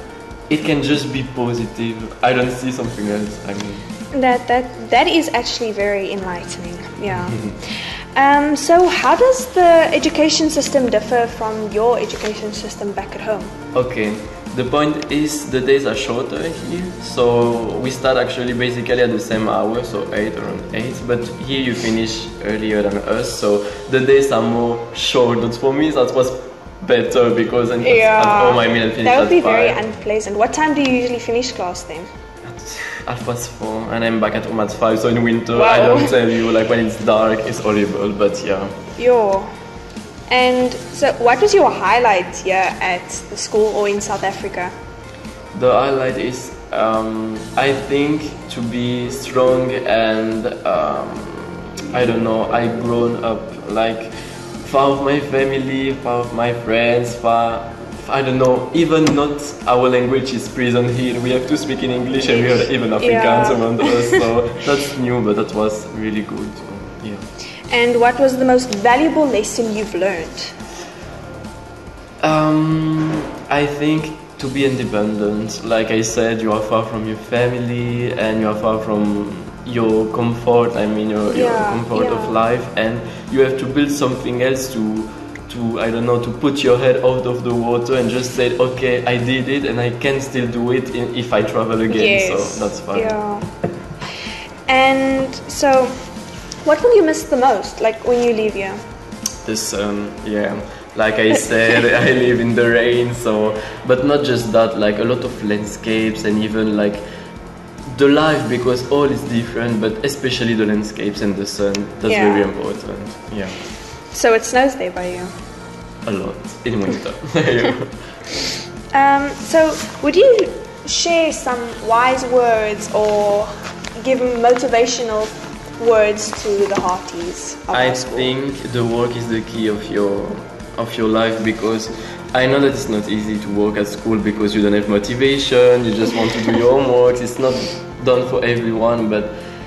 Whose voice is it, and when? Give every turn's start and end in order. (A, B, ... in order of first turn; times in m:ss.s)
0:00.5-0:03.8 A
0:04.1-0:13.5 B
0:13.7-0:29.8 A
0:27.8-0:32.1 B
0:32.4-0:38.7 A
0:35.5-0:36.2 B
0:39.0-0:39.5 B
0:40.3-0:44.7 B
0:45.5-1:07.3 A
1:02.2-1:04.2 B
1:07.7-1:10.5 B
1:12.2-1:33.4 A
1:21.3-1:22.3 B
1:31.9-1:33.5 B
1:34.7-1:35.9 B
1:36.6-1:38.8 B
1:39.4-1:47.0 A
1:47.9-1:53.6 A
1:52.1-1:52.5 B
1:54.1-1:55.3 B
1:56.0-1:58.2 A
1:58.9-2:08.3 B
2:07.7-2:19.4 A